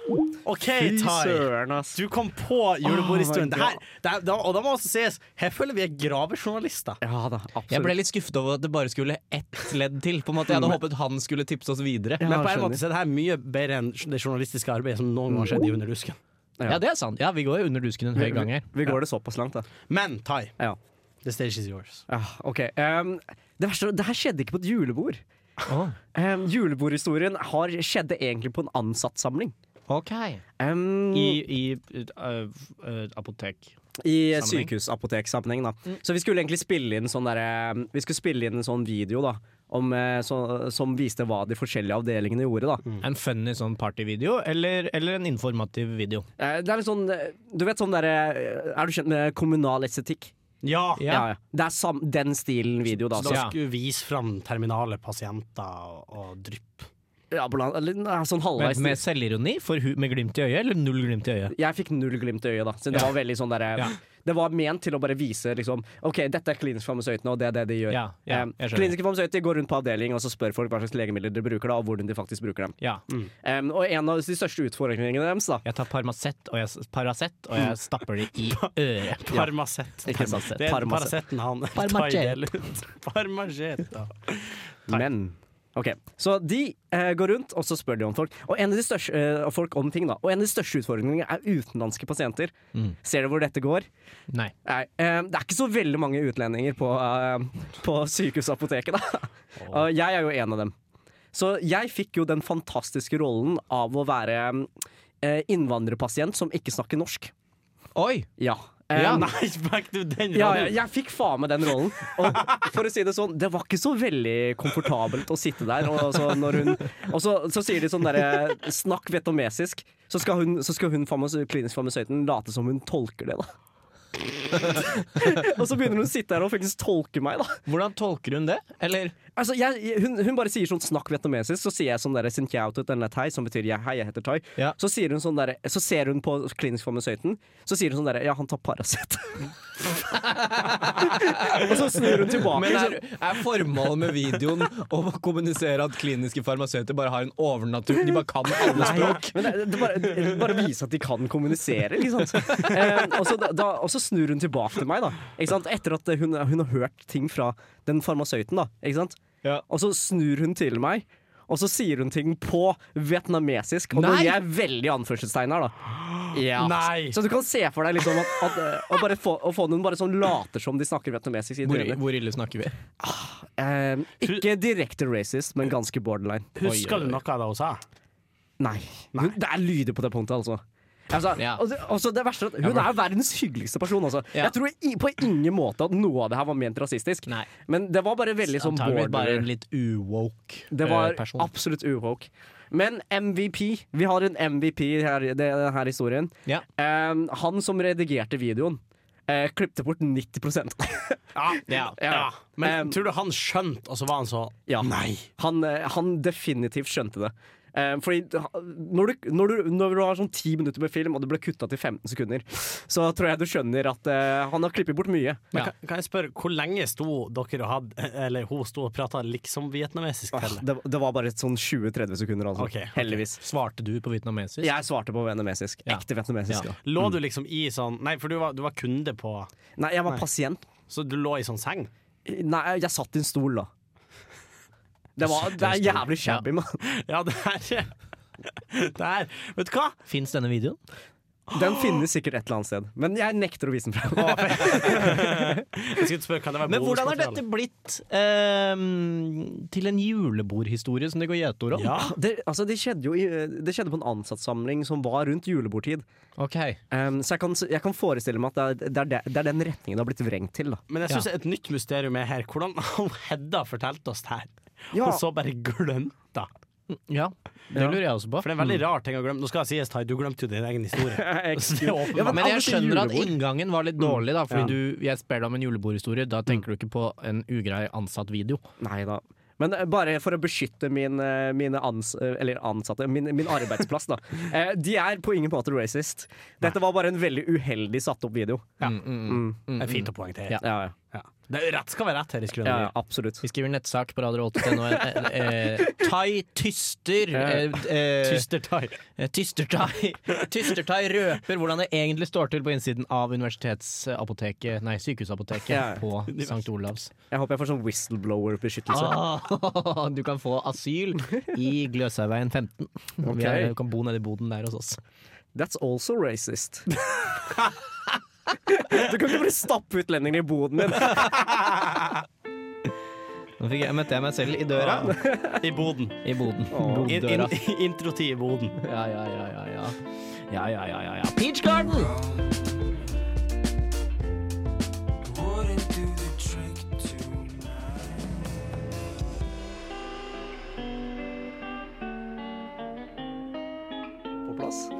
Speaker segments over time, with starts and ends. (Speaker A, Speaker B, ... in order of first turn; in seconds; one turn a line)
Speaker A: 0.5-7.0
Speaker B: 0.8-2.0
Speaker B: 2.9-3.8
Speaker B: 7.0-7.9
Speaker C: 7.7-12.2
Speaker B: 12.2-12.8
Speaker A: 12.2-16.2
Speaker C: 16.7-18.7
Speaker A: 18.3-18.9
Speaker B: 18.7-19.7
Speaker A: 19.9-20.6
Speaker A: 21.2-22.0
Speaker B: 22.1-25.2
Speaker C: 25.7-26.0
Speaker B: 26.1-29.5
Speaker C: 29.9-30.4
Speaker B: 30.6-31.4
Speaker C: 31.1-33.8
Speaker B: 34.0-42.8
Speaker C: 34.3-34.7
Speaker C: 43.0-46.3
Speaker B: 46.4-50.3
Speaker A: 50.6-51.1
Speaker C: 51.0-51.3
Speaker B: 51.1-53.4
Speaker A: 52.9-56.9
Speaker C: 53.3-53.5
Speaker B: 57.3-59.0
Speaker C: 58.6-61.5
Speaker B: 61.5-72.8
Speaker C: 67.9-69.0
Speaker B: 73.4-75.7
Speaker C: 75.7-79.2
Speaker A: 78.5-85.0
Speaker B: 80.0-81.1
Speaker C: 80.1-80.7
Speaker C: 81.7-82.5
Speaker B: 84.9-93.9
Speaker B: 94.7-100.7
Speaker A: 99.6-99.8
Speaker B: 101.3-107.3
Speaker C: 108.0-108.3
Speaker B: 108.4-109.3
Speaker C: 108.9-109.2
Speaker A: 109.0-110.8
Speaker B: 110.3-123.5
Speaker B: 124.3-127.6
Speaker C: 127.7-129.2
Speaker B: 129.4-139.5
Speaker C: 140.1-149.5
Speaker B: 140.9-143.0
Speaker B: 148.8-172.0
Speaker C: 152.6-152.9
Speaker C: 163.9-164.4
Speaker A: 166.0-167.2
Speaker C: 171.6-172.8
Speaker B: 173.0-176.5
Speaker A: 176.6-177.8
Speaker C: 176.6-177.2
Speaker B: 178.6-189.5
Speaker C: 181.4-181.6
Speaker C: 182.6-182.9
Speaker C: 188.6-191.5
Speaker B: 190.7-203.0
Speaker A: 201.3-205.3
Speaker C: 201.7-202.0
Speaker B: 204.7-215.4
Speaker A: 215.5-220.7
Speaker B: 220.3-223.4
Speaker A: 222.6-223.1
Speaker C: 223.4-224.7
Speaker B: 224.6-226.8
Speaker C: 225.9-227.1
Speaker A: 226.8-229.5
Speaker B: 229.8-230.7
Speaker A: 230.9-231.9
Speaker B: 232.3-233.7
Speaker B: 235.2-236.8
Speaker C: 235.2-236.4
Speaker A: 236.8-237.9
Speaker A: 238.6-240.0
Speaker C: 240.1-240.8
Speaker B: 241.5-245.5
Speaker A: 241.5-242.0
Speaker A: 244.2-247.4
Speaker C: 246.7-252.0
Speaker A: 251.7-252.1
Speaker B: 252.0-256.0
Speaker C: 256.4-256.8
Speaker B: 256.9-260.8
Speaker A: 260.9-266.5
Speaker B: 264.9-265.2
Speaker C: 266.9-268.7
Speaker A: 267.8-272.9
Speaker B: 271.1-273.3
Speaker C: 272.2-278.6
Speaker A: 274.5-274.8
Speaker B: 278.8-289.6
Speaker C: 288.8-290.6
Speaker A: 289.8-290.6
Speaker B: 290.6-290.9
Speaker A: 291.1-292.9
Speaker B: 292.6-293.4
Speaker C: 293.4-298.5
Speaker B: 297.3-297.7
Speaker A: 298.2-299.0
Speaker C: 299.2-307.1
Speaker B: 305.7-306.0
Speaker A: 306.3-306.6
Speaker B: 307.3-309.2
Speaker C: 308.9-315.0
Speaker B: 313.2-313.7
Speaker B: 315.6-316.9
Speaker B: 318.7-321.5
Speaker C: 323.6-325.1
Speaker A: 324.8-326.3
Speaker B: 325.1-325.6
Speaker C: 326.2-327.6
Speaker B: 326.7-327.1
Speaker A: 327.1-328.8
Speaker C: 328.8-332.2
Speaker B: 344.4-344.9